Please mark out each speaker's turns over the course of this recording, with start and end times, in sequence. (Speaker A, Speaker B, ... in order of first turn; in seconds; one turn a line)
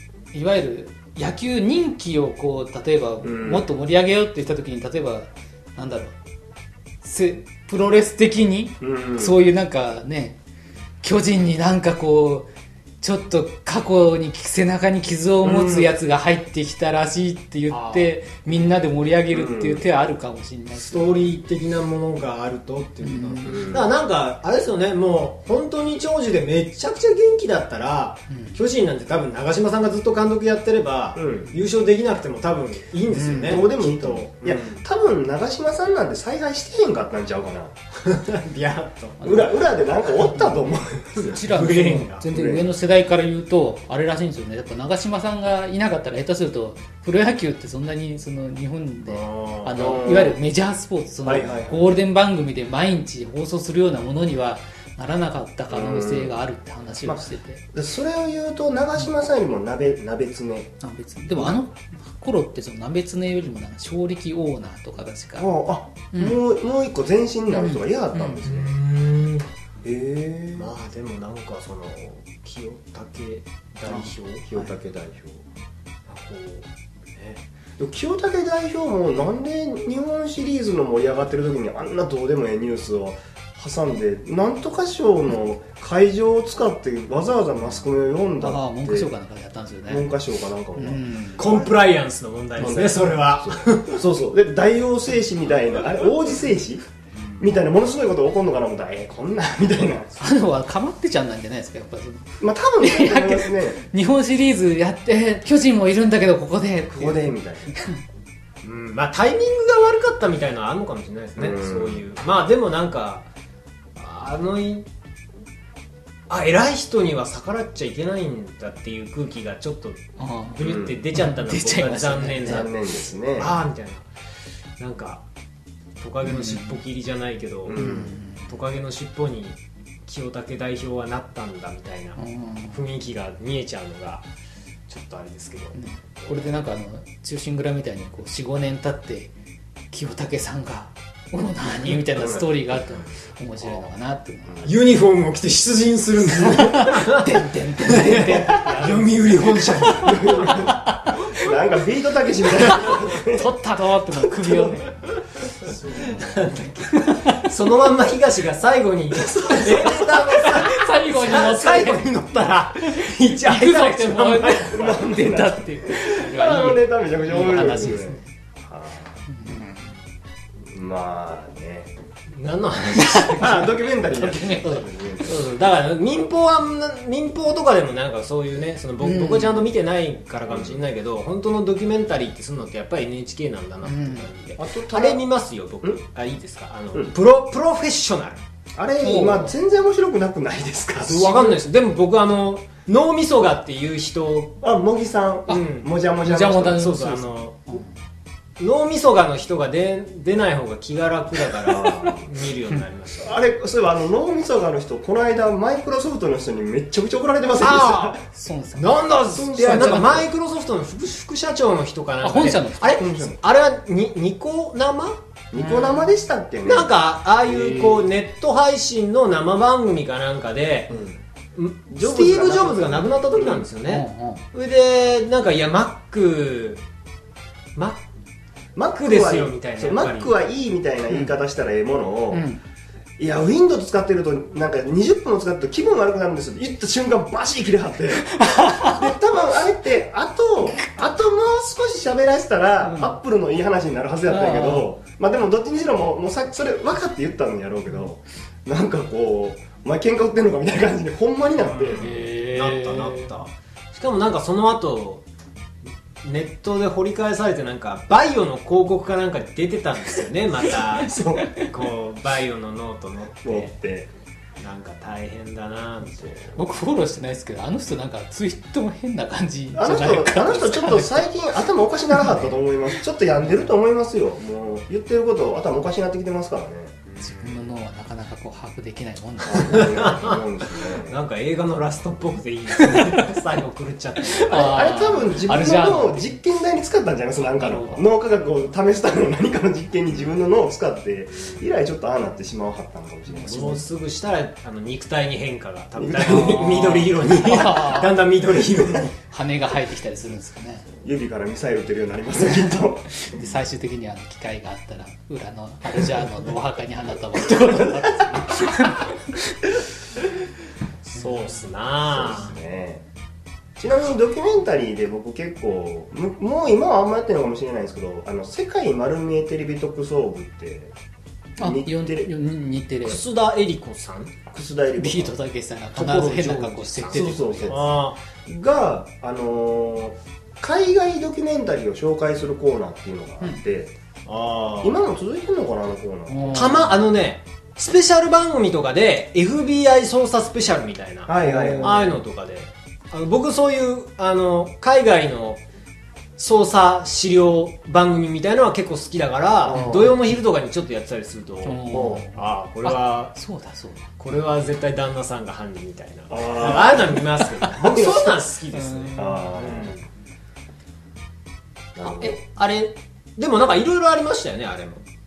Speaker A: 0.3-6.2
Speaker B: 3.2-3.7
Speaker A: 7.0-10.4
Speaker B: 8.8-9.3
Speaker A: 11.0-12.5
Speaker A: 13.0-21.3
Speaker B: 15.4-15.9
Speaker C: 17.7-18.1
Speaker B: 19.3-19.8
Speaker C: 20.8-34.8
Speaker A: 23.0-23.8
Speaker B: 23.4-23.9
Speaker A: 28.3-28.6
Speaker B: 31.2-31.5
Speaker A: 33.1-33.8
Speaker B: 33.4-37.8
Speaker C: 38.0-39.5
Speaker B: 39.2-41.5
Speaker C: 40.2-42.2
Speaker A: 41.2-57.6
Speaker B: 42.2-42.7
Speaker C: 49.1-49.8
Speaker B: 49.8-50.4
Speaker B: 51.2-51.9
Speaker B: 55.7-56.3
Speaker B: 57.0-60.7
Speaker A: 60.8-66.4
Speaker B: 65.4-68.7
Speaker A: 67.5-68.5
Speaker C: 68.5-69.5
Speaker B: 69.8-70.7
Speaker C: 70.6-74.5
Speaker A: 73.9-74.7
Speaker B: 74.4-75.4
Speaker C: 76.1-77.4
Speaker B: 77.8-89.1
Speaker A: 88.4-90.1
Speaker B: 89.9-91.8
Speaker A: 90.8-91.4
Speaker C: 91.4-94.0
Speaker B: 92.6-96.8
Speaker B: 97.4-100.3
Speaker A: 100.2-108.0
Speaker B: 102.4-103.8
Speaker B: 106.9-107.7
Speaker C: 108.6-113.3
Speaker B: 111.4-112.0
Speaker C: 114.0-114.9
Speaker C: 116.3-120.0
Speaker A: 120.2-120.6
Speaker C: 120.5-125.2
Speaker B: 120.6-121.0
Speaker A: 121.1-122.7
Speaker B: 122.4-123.5
Speaker C: 126.0-134.3
Speaker A: 126.2-126.8
Speaker B: 127.7-128.2
Speaker A: 127.8-128.5
Speaker A: 132.2-132.8
Speaker C: 134.9-136.5
Speaker A: 135.8-139.3
Speaker A: 139.9-144.8
Speaker B: 142.2-142.4
Speaker C: 144.6-150.5
Speaker A: 146.5-151.4
Speaker B: 150.0-153.5
Speaker A: 152.6-154.9
Speaker B: 154.1-154.8
Speaker C: 155.7-164.9
Speaker A: 157.0-157.4
Speaker B: 159.1-160.1
Speaker A: 159.5-162.1
Speaker A: 162.8-168.3
Speaker B: 164.7-169.2
Speaker A: 169.3-169.9
Speaker B: 170.7-171.9
Speaker C: 172.3-173.4
Speaker A: 173.0-175.3
Speaker B: 173.4-175.3
Speaker C: 174.6-188.4
Speaker A: 179.0-179.7
Speaker B: 180.5-180.8
Speaker A: 183.8-184.3
Speaker B: 184.6-185.2
Speaker B: 188.8-191.6
Speaker A: 189.0-189.5
Speaker C: 191.0-194.6
Speaker B: 194.6-196.9
Speaker C: 195.5-195.9
Speaker A: 196.2-197.9
Speaker C: 196.7-197.8
Speaker C: 198.6-203.4
Speaker B: 201.7-202.3
Speaker A: 201.9-202.2
Speaker B: 203.2-208.2
Speaker C: 207.6-216.1
Speaker A: 208.3-210.3
Speaker B: 209.3-210.3
Speaker A: 212.2-213.3
Speaker B: 213.0-213.4
Speaker B: 215.5-216.9
Speaker C: 216.6-221.0
Speaker B: 220.9-221.2
Speaker C: 221.6-226.8
Speaker B: 221.9-223.7
Speaker A: 223.9-224.4
Speaker C: 227.8-228.0
Speaker B: 228.8-232.5
Speaker C: 228.9-230.3
Speaker A: 232.3-232.6
Speaker B: 233.2-252.1
Speaker A: 238.3-239.1
Speaker A: 242.8-243.2
Speaker A: 244.3-244.9
Speaker C: 251.6-255.2
Speaker A: 252.0-253.3
Speaker C: 256.2-263.8
Speaker B: 261.1-261.5
Speaker A: 261.4-261.7
Speaker B: 263.4-264.1
Speaker C: 264.6-266.6
Speaker A: 266.6-271.3
Speaker B: 269.7-277.0
Speaker A: 272.1-272.6
Speaker C: 277.1-277.7
Speaker A: 277.2-280.1
Speaker B: 279.4-281.2
Speaker C: 279.7-284.9
Speaker A: 282.8-283.3
Speaker A: 284.3-286.3
Speaker B: 284.5-293.9
Speaker A: 287.5-288.1
Speaker C: 293.3-299.2
Speaker B: 296.0-296.7
Speaker A: 296.2-298.2
Speaker A: 299.3-300.9
Speaker B: 301.0-303.1
Speaker A: 303.1-309.7
Speaker C: 311.0-312.6
Speaker A: 311.2-311.5
Speaker B: 312.1-313.0
Speaker B: 313.8-320.9
Speaker B: 321.6-322.3
Speaker A: 321.6-323.2
Speaker C: 323.1-324.3
Speaker B: 324.5-325.3
Speaker A: 325.0-327.9
Speaker C: 325.9-328.2
Speaker B: 327.1-333.9
Speaker C: 334.3-335.0
Speaker B: 334.8-336.8
Speaker A: 336.3-336.9
Speaker C: 336.5-345.6
Speaker B: 341.3-342.2
Speaker A: 341.4-342.1
Speaker C: 346.4-353.4
Speaker B: 349.6-350.2
Speaker A: 349.8-350.1
Speaker A: 351.6-354.1
Speaker B: 351.9-352.3
Speaker C: 354.2-360.0
Speaker B: 356.3-358.4
Speaker A: 357.2-357.4
Speaker A: 358.7-359.5
Speaker B: 359.1-360.0
Speaker B: 362.0-362.4
Speaker C: 362.0-365.1